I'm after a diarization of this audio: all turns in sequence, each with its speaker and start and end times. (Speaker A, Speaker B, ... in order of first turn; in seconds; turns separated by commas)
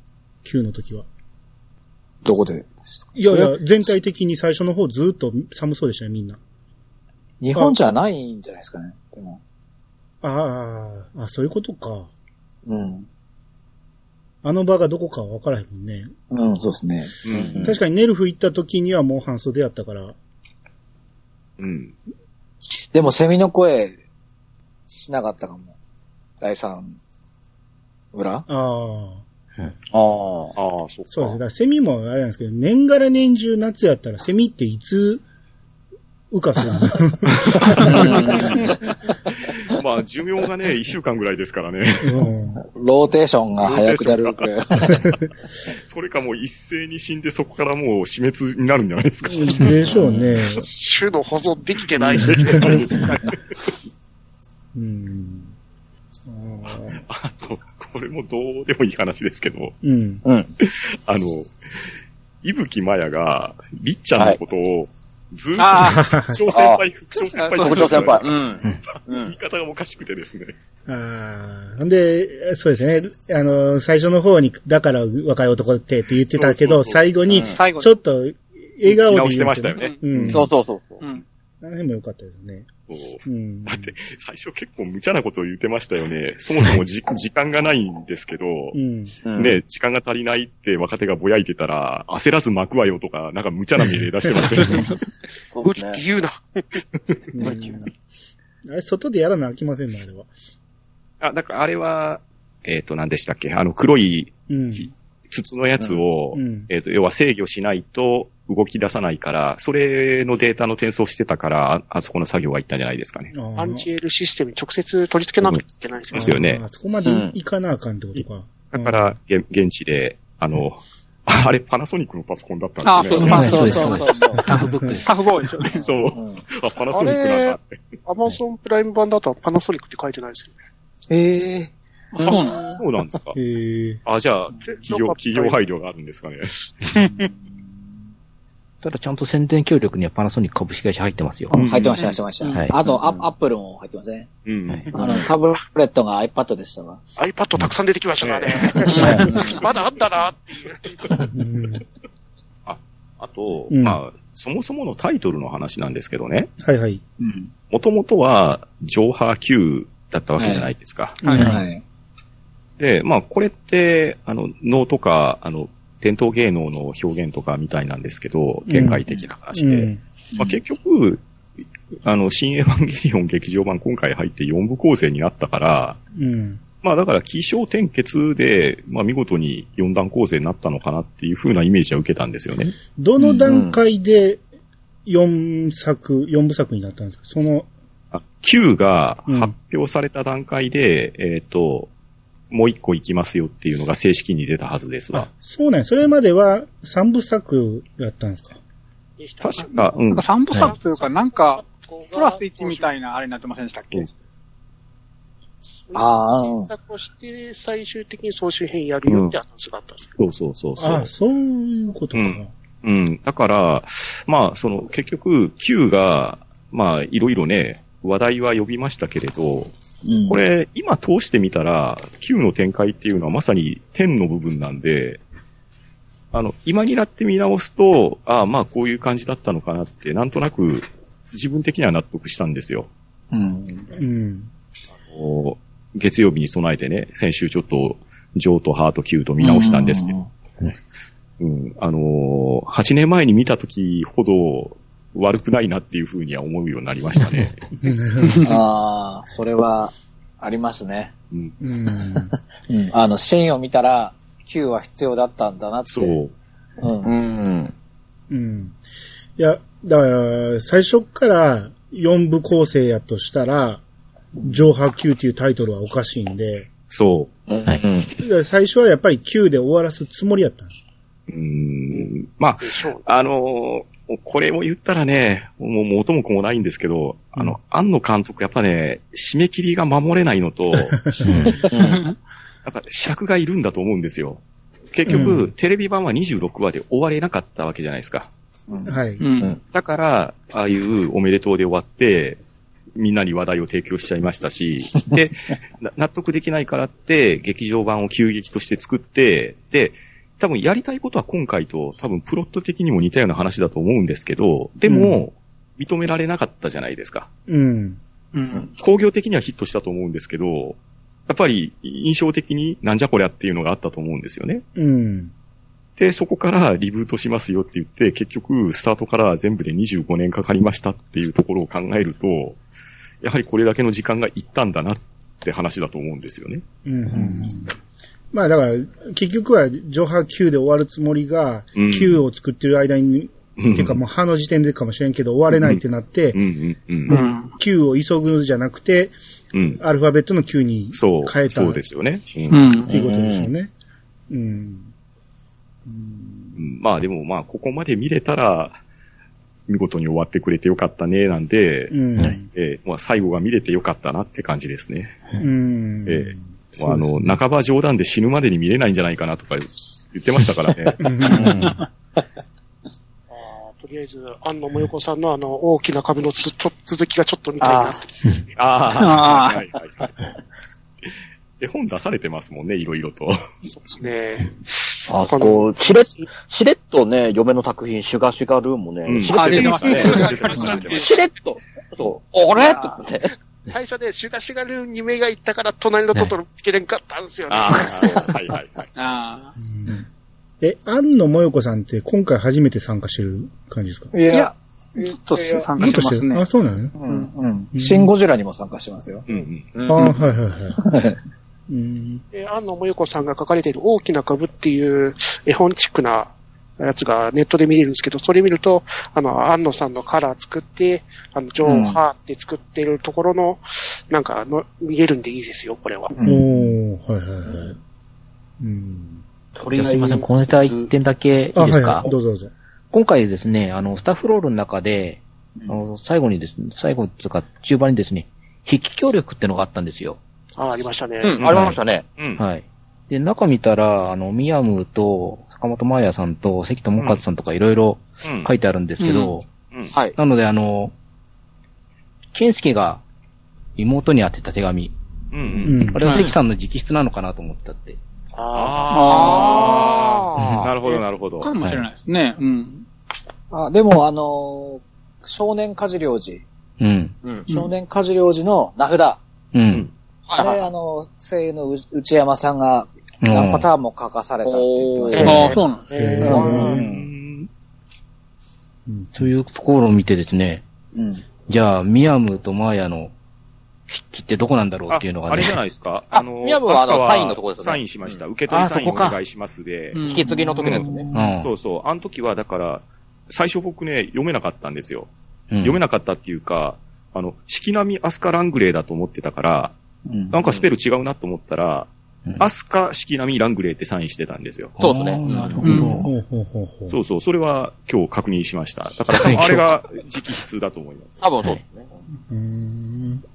Speaker A: 0.4-1.1, Speaker B: 2.2-3.6, Speaker A: 3.1-6.4, Speaker B: 7.4-9.4, Speaker A: 7.5-7.8, Speaker A: 10.2-12.1, Speaker B: 12.7-13.1, Speaker A: 14.4-16.1, Speaker B: 16.3-17.7, Speaker C: 17.2-17.7, Speaker D: 17.3-17.7, Speaker A: 17.6-20.1, Speaker C: 21.6-21.9, Speaker B: 22.8-24.0, Speaker B: 24.9-25.7, Speaker B: 26.4-26.9, Speaker B: 28.1-28.4, Speaker A: 28.5-29.2, Speaker D: 29.9-30.5, Speaker C: 30.6-31.4, Speaker A: 31.1-35.2, Speaker A: 36.3-38.5, Speaker C: 37.7-38.7, Speaker B: 37.8-38.7, Speaker D: 37.9-38.4, Speaker C: 39.4-42.3, Speaker A: 42.0-42.6, Speaker B: 42.6-45.0, Speaker C: 43.6-45.0, Speaker C: 45.8-49.8, Speaker A: 49.3-50.6, Speaker B: 49.9-50.2, Speaker E: 50.5-52.9, Speaker C: 52.0-53.4, Speaker A: 52.3-52.8, Speaker A: 54.7-55.5, Speaker A: 56.3-57.0, Speaker C: 56.7-59.8, Speaker A: 59.8-60.2, Speaker D: 60.2-60.5, Speaker C: 60.6-61.8, Speaker C: 62.4-68.3, Speaker F: 65.6-66.0, Speaker A: 65.9-66.4, Speaker D: 66.5-66.8, Speaker F: 67.3-68.4, Speaker D: 67.6-69.3, Speaker C: 68.9-70.5, Speaker A: 70.9-80.5, Speaker C: 76.3-77.0, Speaker D: 77.3-77.6, Speaker F: 77.5-77.9, Speaker C: 78.8-80.0, Speaker D: 80.2-81.0, Speaker A: 81.6-82.7, Speaker C: 82.9-88.8, Speaker A: 83.2-83.9, Speaker A: 88.7-89.2, Speaker D: 89.2-89.6, Speaker C: 89.3-94.9, Speaker D: 95.5-96.0, Speaker E: 95.6-96.8, Speaker A: 97.3-97.9, Speaker D: 97.4-97.8, Speaker A: 98.7-100.3, Speaker C: 101.2-113.3, Speaker A: 104.5-104.9, Speaker A: 106.3-106.7, Speaker A: 113.3-113.9, Speaker E: 113.5-116.3, Speaker C: 115.4-116.6, Speaker A: 116.1-119.2, Speaker D: 117.0-117.3, Speaker C: 118.7-123.7, Speaker F: 122.8-124.5, Speaker B: 123.1-125.1, Speaker G: 123.2-125.2, Speaker F: 125.0-125.9, Speaker C: 125.7-127.8, Speaker B: 125.8-126.4, Speaker E: 126.9-130.6, Speaker B: 131.1-131.7, Speaker F: 132.1-132.8, Speaker B: 132.2-132.5, Speaker C: 132.7-133.4, Speaker A: 133.3-134.0, Speaker C: 134.1-136.6, Speaker E: 134.6-135.6, Speaker B: 137.0-137.6, Speaker G: 138.8-141.6, Speaker C: 141.5-142.0, Speaker B: 141.5-144.3, Speaker F: 142.4-142.7, Speaker C: 144.4-145.2, Speaker B: 144.9-147.0, Speaker E: 147.2-151.2, Speaker C: 148.2-150.0, Speaker F: 148.9-149.4, Speaker B: 149.0-149.3, Speaker A: 151.3-151.8, Speaker C: 152.7-156.5, Speaker A: 153.7-154.0, Speaker A: 156.6-157.0, Speaker B: 157.2-157.5, Speaker C: 157.7-161.2, Speaker B: 160.4-160.7, Speaker A: 161.2-161.6, Speaker F: 161.2-161.6, Speaker B: 161.3-161.8, Speaker C: 162.8-171.2, Speaker A: 168.7-170.0, Speaker C: 172.0-176.0, Speaker A: 176.1-176.6, Speaker C: 176.8-182.7, Speaker A: 182.9-184.4, Speaker D: 183.2-183.8, Speaker A: 185.1-187.7, Speaker C: 188.1-191.9, Speaker A: 189.3-189.5, Speaker C: 192.5-195.3, Speaker A: 195.1-198.6, Speaker E: 199.2-199.8, Speaker C: 199.4-200.2, Speaker F: 200.1-204.2, Speaker E: 200.5-202.9, Speaker E: 205.6-210.1, Speaker B: 205.9-206.7, Speaker C: 209.1-209.3, Speaker C: 210.2-211.1, Speaker A: 210.8-212.5, Speaker C: 212.1-219.7, Speaker B: 220.0-220.4, Speaker C: 220.3-225.2, Speaker C: 226.3-232.9, Speaker B: 233.3-233.9, Speaker A: 233.9-234.5, Speaker C: 235.1-240.1, Speaker B: 239.4-240.3, Speaker C: 241.4-247.6, Speaker A: 247.8-248.5, Speaker B: 248.4-251.1, Speaker A: 251.6-252.3, Speaker B: 252.3-256.2, Speaker C: 255.9-256.3, Speaker B: 256.8-257.1, Speaker D: 257.0-257.7, Speaker A: 258.3-258.8, Speaker A: 259.4-263.8, Speaker A: 264.4-266.7, Speaker C: 266.9-267.3, Speaker D: 267.5-268.1, Speaker A: 268.2-270.7, Speaker C: 271.3-281.1, Speaker E: 272.6-273.1, Speaker G: 281.2-281.7, Speaker D: 281.7-282.0, Speaker C: 282.6-284.4, Speaker C: 284.9-288.3, Speaker A: 285.1-285.5, Speaker B: 288.7-288.9, Speaker A: 288.9-289.2, Speaker F: 289.2-289.6, Speaker C: 289.7-292.4, Speaker C: 292.9-307.3, Speaker A: 304.9-305.2, Speaker A: 307.5-308.0, Speaker F: 308.3-308.7, Speaker C: 308.8-310.8, Speaker C: 311.3-314.6, Speaker A: 314.8-315.3, Speaker C: 316.0-322.6, Speaker C: 323.2-326.6, Speaker A: 326.8-327.7, Speaker B: 327.1-327.5, Speaker A: 328.3-336.4, Speaker C: 331.8-332.2, Speaker C: 333.6-334.0, Speaker C: 335.5-335.8, Speaker C: 336.3-337.2, Speaker A: 337.1-339.1, Speaker F: 337.1-337.5, Speaker C: 339.5-339.8, Speaker A: 339.8-341.8, Speaker C: 340.9-342.6, Speaker F: 342.5-342.9, Speaker A: 342.9-343.7, Speaker D: 342.9-343.5, Speaker A: 344.3-344.9, Speaker A: 345.9-346.6, Speaker C: 346.6-348.8, Speaker C: 349.7-355.2, Speaker A: 351.9-352.5, Speaker A: 355.4-357.1, Speaker C: 356.1-361.1, Speaker A: 361.0-361.7, Speaker E: 363.3-368.1, Speaker C: 368.6-370.2, Speaker F: 368.9-369.6, Speaker C: 371.6-373.4, Speaker E: 373.6-376.3, Speaker D: 375.1-383.3, Speaker C: 379.1-381.1, Speaker F: 379.3-380.7, Speaker E: 380.0-381.2, Speaker E: 383.6-388.4, Speaker C: 387.5-388.9, Speaker F: 388.9-389.5, Speaker A: 389.6-390.1, Speaker A: 390.6-394.1, Speaker B: 394.1-396.0, Speaker F: 394.3-396.5, Speaker A: 395.8-396.9, Speaker B: 397.0-399.2, Speaker A: 397.7-398.1, Speaker C: 399.3-399.7, Speaker D: 399.7-400.1, Speaker A: 399.9-400.8, Speaker B: 400.8-401.2, Speaker A: 401.7-402.2, Speaker E: 402.3-416.1, Speaker B: 411.6-412.0, Speaker B: 416.1-416.7, Speaker A: 416.2-417.8, Speaker A: 418.6-419.2, Speaker D: 419.6-420.9, Speaker G: 419.7-422.1, Speaker A: 421.5-422.5, Speaker G: 422.9-430.2, Speaker E: 430.6-431.4, Speaker C: 431.4-432.4, Speaker D: 431.4-432.0, Speaker G: 431.5-431.8, Speaker G: 432.4-439.4, Speaker C: 438.2-438.5, Speaker F: 439.0-439.4, Speaker G: 440.1-440.9, Speaker G: 442.3-443.0, Speaker G: 443.8-444.9, Speaker C: 445.3-445.8, Speaker G: 445.5-448.0, Speaker A: 445.6-446.0, Speaker F: 446.0-446.3, Speaker E: 448.3-449.8, Speaker C: 448.5-451.5, Speaker F: 448.9-450.0, Speaker D: 449.2-450.7, Speaker G: 450.4-450.7, Speaker F: 451.0-452.9, Speaker B: 453.5-456.4, Speaker G: 456.8-457.1, Speaker D: 457.2-457.5, Speaker B: 457.5-459.2, Speaker G: 459.5-459.9, Speaker D: 460.3-460.7, Speaker B: 460.4-465.6, Speaker G: 463.2-463.6, Speaker D: 464.4-465.6, Speaker E: 465.1-466.7, Speaker F: 465.2-466.5, Speaker A: 465.9-466.8, Speaker D: 466.2-466.8, Speaker B: 466.2-467.1, Speaker C: 466.4-467.5, Speaker A: 468.9-469.1, Speaker G: 469.1-470.6, Speaker B: 470.9-471.2, Speaker G: 471.5-473.1, Speaker G: 473.9-475.6, Speaker C: 474.9-480.0, Speaker D: 476.1-478.2, Speaker G: 478.5-479.2, Speaker F: 479.9-481.1, Speaker D: 480.0-481.0, Speaker B: 480.2-481.4, Speaker G: 481.1-481.5, Speaker C: 481.4-485.1, Speaker G: 485.5-485.8, Speaker C: 485.6-489.8, Speaker B: 490.1-490.3, Speaker C: 490.3-494.8, Speaker D: 494.8-495.8, Speaker G: 494.8-496.1, Speaker F: 495.6-496.1, Speaker A: 496.0-496.9, Speaker C: 496.9-501.2, Speaker G: 499.1-499.7, Speaker D: 501.2-501.9, Speaker A: 502.3-503.2